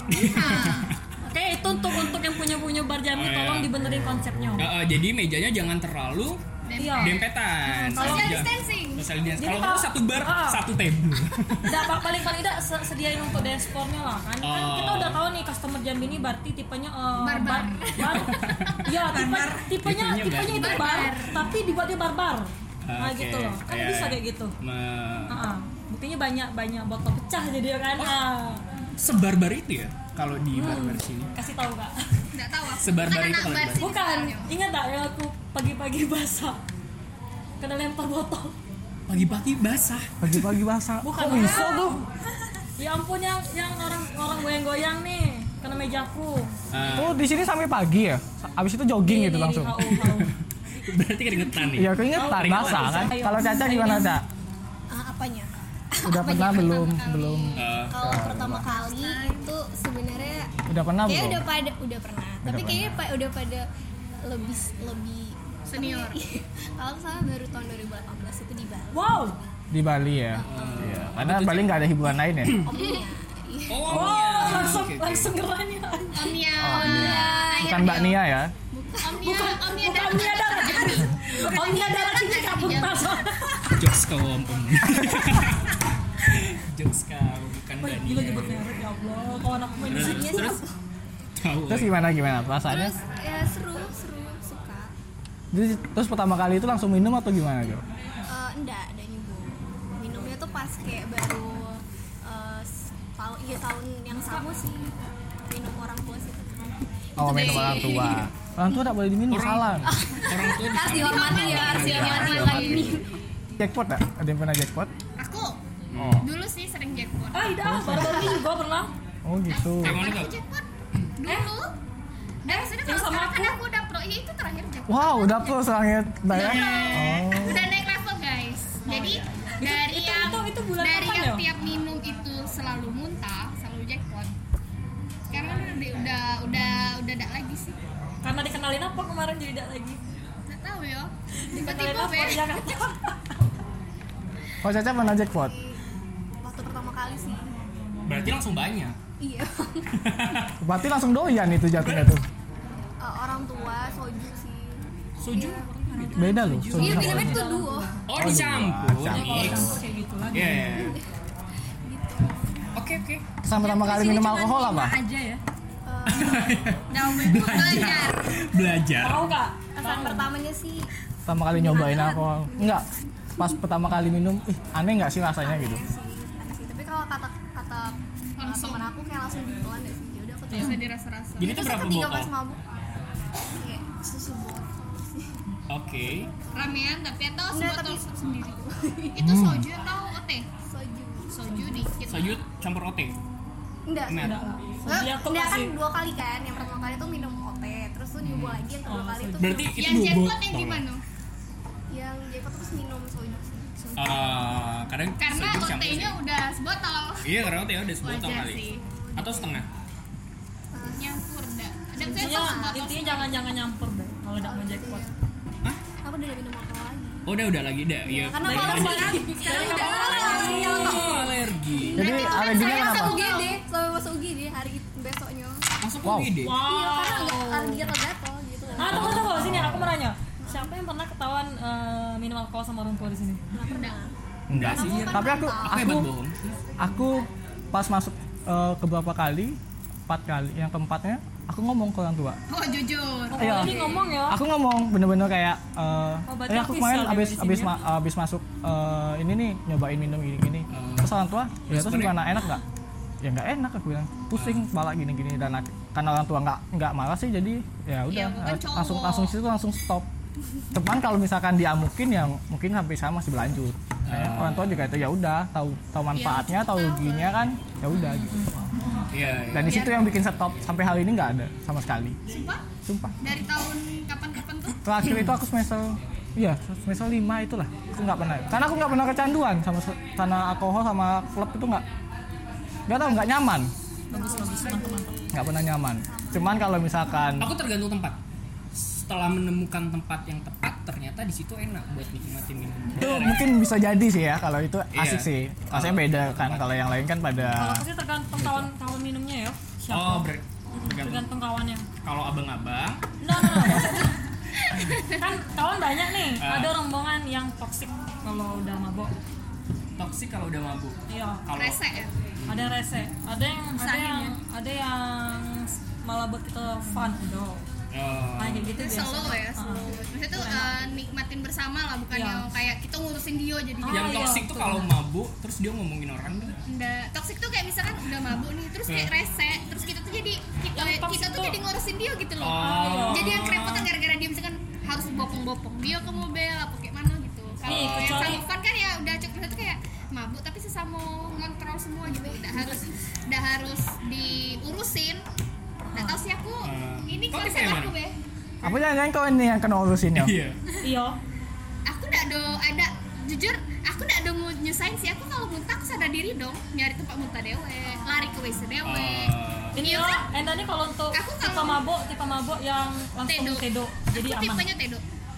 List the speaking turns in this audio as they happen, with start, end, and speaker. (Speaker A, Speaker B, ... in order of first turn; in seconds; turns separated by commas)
Speaker A: 0.1-0.9, Speaker B: 0.1-0.9, Speaker C: 1.2-4.7, Speaker A: 3.1-3.7, Speaker A: 4.6-6.4, Speaker B: 6.6-7.3, Speaker C: 6.8-7.2, Speaker A: 7.0-11.9, Speaker C: 7.7-8.5, Speaker B: 7.9-9.1, Speaker C: 9.4-10.6, Speaker C: 11.6-24.5, Speaker A: 14.4-15.2, Speaker B: 17.2-18.8, Speaker A: 18.0-18.9, Speaker D: 19.1-19.6, Speaker A: 19.8-21.1, Speaker B: 20.5-21.4, Speaker A: 22.8-25.4, Speaker C: 25.3-28.6, Speaker A: 29.0-31.3, Speaker C: 30.5-32.0, Speaker B: 32.3-34.5, Speaker A: 32.8-33.9, Speaker C: 33.8-36.6, Speaker C: 37.6-38.6, Speaker A: 39.1-40.4, Speaker E: 40.2-42.0, Speaker C: 41.0-42.0, Speaker C: 42.8-46.5, Speaker A: 46.7-47.2, Speaker E: 46.9-49.8, Speaker C: 49.0-50.3, Speaker A: 49.9-53.2, Speaker E: 51.7-54.2, Speaker C: 52.1-54.2, Speaker F: 54.9-60.5, Speaker E: 56.0-58.7, Speaker B: 56.5-57.8, Speaker A: 57.5-58.0, Speaker D: 58.6-59.5, Speaker E: 60.7-61.5, Speaker F: 61.0-63.7, Speaker E: 62.4-63.0, Speaker F: 64.2-69.3, Speaker B: 65.7-66.2, Speaker C: 68.9-69.4, Speaker E: 69.7-72.7, Speaker F: 70.3-71.1, Speaker A: 70.5-71.8, Speaker F: 72.5-74.5, Speaker A: 73.7-75.3, Speaker C: 73.9-76.4, Speaker B: 76.1-78.2, Speaker E: 76.6-78.5, Speaker F: 76.7-78.1, Speaker F: 78.7-79.6, Speaker B: 79.0-83.2, Speaker C: 79.0-83.8, Speaker F: 81.6-81.8, Speaker A: 83.7-88.6, Speaker E: 84.8-85.3, Speaker C: 87.8-90.6, Speaker A: 89.9-90.6, Speaker F: 89.9-90.7, Speaker A: 91.4-91.9, Speaker E: 91.7-92.9, Speaker F: 92.7-94.9, Speaker E: 95.5-97.8, Speaker F: 98.3-108.1, Speaker E: 107.2-109.9, Speaker B: 107.2-108.3, Speaker A: 109.3-112.9, Speaker F: 109.8-113.1, Speaker B: 110.7-113.0, Speaker E: 111.2-113.0, Speaker E: 113.6-114.9, Speaker B: 115.2-115.6, Speaker A: 115.9-116.2, Speaker E: 115.9-116.3, Speaker B: 116.2-118.3, Speaker C: 117.3-118.9, Speaker E: 117.6-118.4, Speaker E: 119.2-120.0, Speaker B: 119.5-120.7, Speaker A: 119.8-120.3, Speaker B: 121.2-121.7, Speaker C: 121.2-121.5, Speaker B: 122.4-125.6, Speaker C: 122.5-123.6, Speaker E: 124.9-127.7, Speaker B: 126.3-134.3, Speaker C: 128.8-131.5, Speaker B: 135.3-137.8, Speaker C: 138.2-140.0, Speaker B: 140.5-142.8, Speaker C: 141.5-143.2, Speaker E: 144.6-145.5, Speaker F: 144.8-145.8, Speaker F: 146.4-147.5, Speaker A: 148.0-149.0, Speaker F: 149.2-150.3, Speaker A: 149.9-150.6, Speaker E: 150.6-152.2, Speaker A: 151.8-152.2, Speaker F: 153.0-155.7, Speaker A: 155.2-157.3, Speaker D: 156.1-157.4, Speaker E: 156.2-157.4, Speaker C: 156.3-157.8, Speaker F: 156.7-158.0, Speaker A: 158.1-159.7, Speaker E: 158.2-159.7, Speaker C: 159.1-160.5, Speaker D: 159.1-160.8, Speaker A: 160.3-161.0, Speaker F: 160.5-161.0, Speaker F: 161.8-162.6, Speaker A: 162.8-163.2, Speaker E: 163.4-165.0, Speaker D: 163.6-165.4, Speaker F: 165.8-166.6, Speaker A: 166.1-169.3, Speaker D: 166.9-168.1, Speaker B: 166.9-168.2, Speaker C: 169.0-170.3, Speaker F: 169.8-170.9, Speaker E: 171.2-172.8, Speaker D: 171.5-172.2, Speaker F: 172.4-173.6, Speaker E: 173.4-175.8, Speaker F: 175.3-180.8, Speaker B: 178.4-178.9, Speaker B: 180.5-181.6, Speaker A: 181.4-182.3, Speaker F: 181.4-182.8, Speaker F: 183.6-185.3, Speaker A: 185.7-186.3, Speaker B: 186.5-188.5, Speaker F: 187.5-189.2, Speaker B: 189.1-190.5, Speaker E: 189.2-189.7, Speaker F: 190.7-191.9, Speaker B: 191.3-192.4, Speaker A: 192.0-193.1, Speaker F: 193.8-199.8, Speaker A: 194.1-194.5, Speaker C: 194.1-195.7, Speaker A: 198.2-198.6, Speaker C: 198.8-199.8, Speaker A: 199.4-200.8, Speaker B: 199.8-201.0, Speaker F: 201.9-204.3, Speaker A: 203.9-206.2, Speaker B: 205.2-207.3, Speaker A: 207.2-209.7, Speaker B: 208.0-208.8, Speaker F: 208.8-209.6, Speaker F: 210.7-211.2, Speaker B: 210.8-213.3, Speaker F: 212.0-212.8, Speaker C: 212.0-215.1, Speaker F: 214.4-215.1, Speaker F: 216.0-217.3, Speaker A: 217.3-222.2, Speaker F: 218.0-225.6, Speaker C: 218.4-221.3, Speaker E: 222.0-223.3, Speaker B: 222.1-223.6, Speaker A: 225.8-226.6, Speaker E: 226.0-226.3, Speaker C: 226.4-227.9, Speaker F: 226.5-229.4, Speaker C: 228.8-233.4, Speaker A: 228.8-229.7, Speaker E: 229.3-229.9, Speaker F: 230.4-230.7, Speaker F: 233.5-234.1, Speaker B: 233.7-233.9, Speaker E: 234.5-236.1, Speaker A: 234.5-236.6, Speaker F: 234.7-236.0, Speaker F: 236.7-237.2, Speaker E: 236.8-242.4, Speaker B: 242.5-244.0, Speaker C: 243.3-244.4, Speaker E: 243.4-252.6, Speaker C: 246.3-247.8, Speaker A: 250.7-251.2, Speaker A: 251.7-252.2, Speaker E: 253.2-260.1, Speaker A: 254.3-254.6, Speaker B: 258.1-259.3, Speaker E: 260.7-268.5, Speaker A: 264.1-264.6, Speaker B: 266.1-267.3, Speaker C: 267.9-268.5, Speaker A: 269.1-270.0, Speaker E: 269.5-272.2, Speaker B: 269.7-270.1, Speaker B: 272.3-272.6, Speaker E: 272.8-273.1, Speaker B: 273.2-274.8, Speaker E: 274.8-281.8, Speaker E: 282.9-283.7, Speaker F: 284.1-287.4, Speaker C: 284.1-285.1, Speaker E: 285.3-287.5, Speaker A: 287.4-288.2, Speaker A: 288.7-293.4, Speaker E: 292.9-297.8, Speaker A: 294.9-296.9, Speaker C: 297.5-301.9, Speaker E: 298.4-298.7, Speaker A: 299.9-301.2, Speaker A: 302.0-303.8, Speaker C: 303.2-304.2, Speaker B: 304.6-305.2, Speaker C: 305.0-309.1, Speaker A: 306.4-306.7, Speaker A: 310.0-311.8, Speaker C: 311.1-311.4, Speaker B: 311.6-312.1, Speaker A: 312.4-312.7, Speaker C: 312.4-317.6, Speaker D: 313.8-314.4, Speaker A: 317.9-318.7, Speaker C: 318.4-320.7, Speaker B: 318.8-324.4, Speaker C: 322.1-322.4, Speaker C: 323.8-324.9, Speaker A: 323.9-326.6, Speaker B: 326.7-345.2, Speaker A: 328.9-329.1, Speaker C: 330.7-331.6, Speaker A: 332.4-333.9, Speaker C: 332.5-333.3, Speaker A: 337.6-338.4, Speaker C: 337.6-338.4, Speaker C: 345.9-346.2, Speaker B: 345.9-348.1, Speaker A: 346.6-347.9, Speaker E: 348.6-350.3, Speaker A: 350.1-350.6, Speaker C: 350.8-351.2, Speaker B: 351.9-360.2, Speaker A: 358.8-359.8, Speaker C: 359.7-364.7, Speaker B: 361.1-361.8, Speaker B: 363.3-365.0